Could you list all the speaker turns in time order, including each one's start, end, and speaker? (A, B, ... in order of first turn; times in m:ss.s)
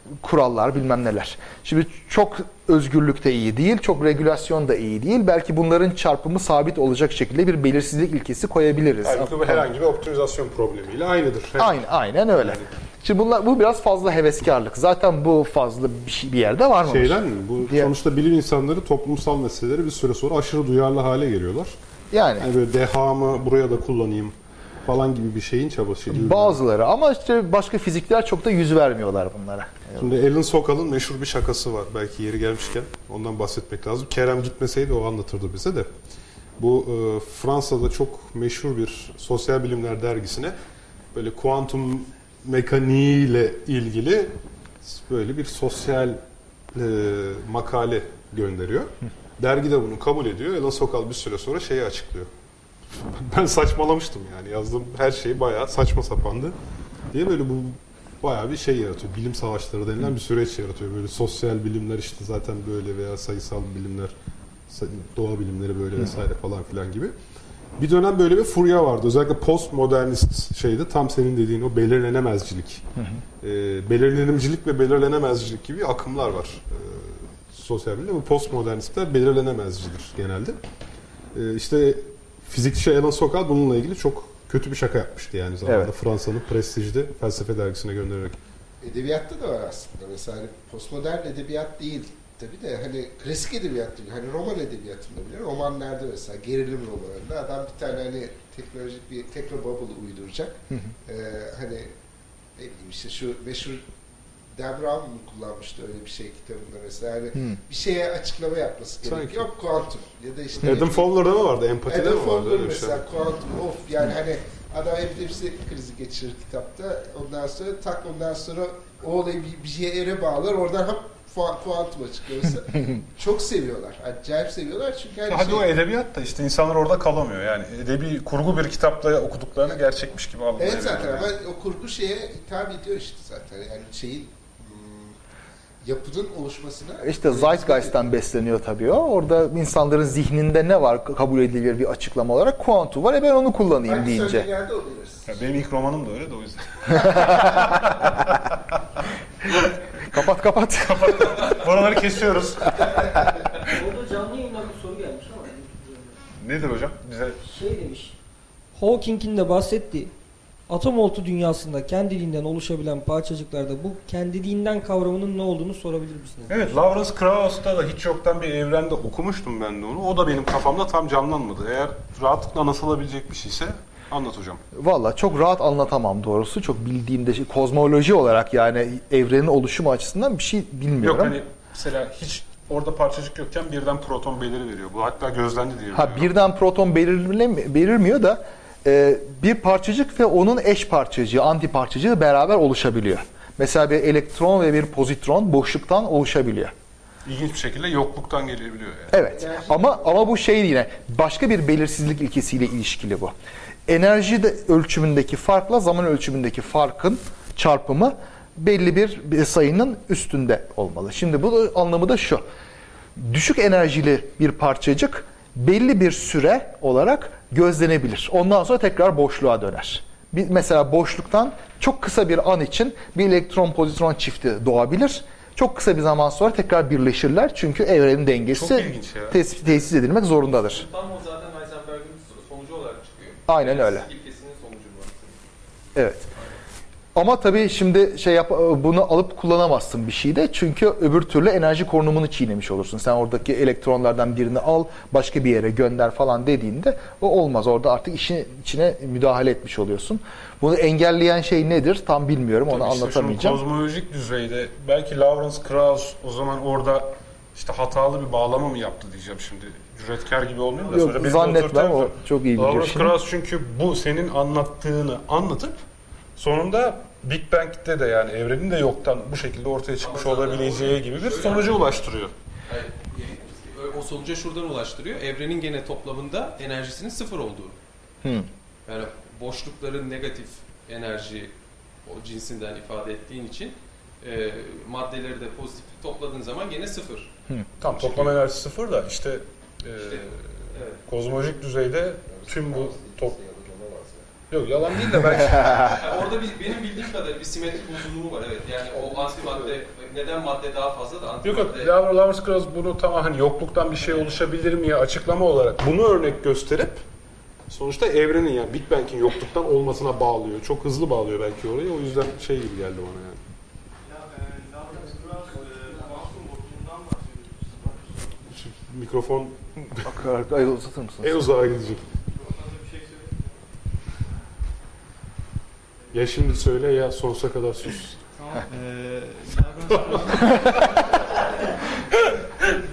0:00.2-0:09.7 A
0:09.0-0:12.7 B
0:11.6-0:17.9 A
0:16.9-0:21.8 B
0:22.1-0:22.5 A
0:22.4-0:26.6 B
0:26.1-0:30.1 A
0:30.0-0:35.9 B
0:36.6-0:40.6 B
0:41.1-0:46.2 B
0:46.7-0:52.3 B
0:53.0-0:56.6 B
0:57.1-1:04.1 B
1:04.7-1:07.1 B
1:07.8-1:12.8 B
1:13.0-1:13.2 A
1:13.4-1:20.6 B
1:21.3-1:28.4 B
1:25.6-1:25.9 A
1:28.8-1:41.9 C
1:42.6-1:43.9 C
1:44.6-1:51.1 C
1:47.3-1:47.6 A
1:49.0-1:49.5 B
1:50.6-1:53.0 B
1:51.9-2:05.7 C
2:05.3-2:11.3 B
2:10.6-2:15.2 C
2:15.8-2:18.0 C
2:17.0-2:24.5 A
2:23.9-2:25.3 C
2:25.3-2:28.7 B
2:27.0-2:27.5 A
2:29.5-2:29.7 B
2:30.1-2:31.6 A
2:30.9-2:33.2 B
2:33.6-2:36.2 D
2:36.4-2:37.4 B
2:37.4-2:38.1 D
2:38.8-2:40.1 D
2:40.7-2:46.6 D
2:46.5-2:54.6 B
2:54.7-3:01.4 A
3:01.0-3:06.3 B
3:05.9-3:16.7 A
3:17.2-3:19.2 B
3:19.1-3:23.3 A
3:19.1-3:20.2 C
3:23.9-3:32.4 A
3:33.2-3:50.8 A
3:48.5-3:49.8 B
3:50.6-3:55.4 E
3:53.5-3:54.1 A
3:56.0-3:56.3 A
3:57.2-4:13.6 A
4:12.7-4:25.8 B
4:20.9-4:23.2 A
4:26.4-4:32.3 B
4:30.0-4:32.1 E
4:32.7-4:37.8 E
4:38.2-4:38.5 A
4:38.9-4:41.5 E
4:42.0-4:47.3 E
4:47.8-4:53.4 B
4:47.9-4:48.4 E
4:50.0-4:51.0 E
4:52.3-4:54.3 C
4:54.5-4:56.0 B
4:55.3-4:55.9 A
4:55.8-5:02.0 E
4:58.9-4:59.8 C
5:01.4-5:07.0 B
5:07.7-5:13.4 B
5:14.0-5:18.5 F
5:18.5-5:20.1 B
5:20.0-5:21.5 A
5:21.2-5:22.0 B
5:22.2-5:23.9 F
5:26.0-5:26.4 F
5:26.1-5:28.2 B
5:28.3-5:32.2 F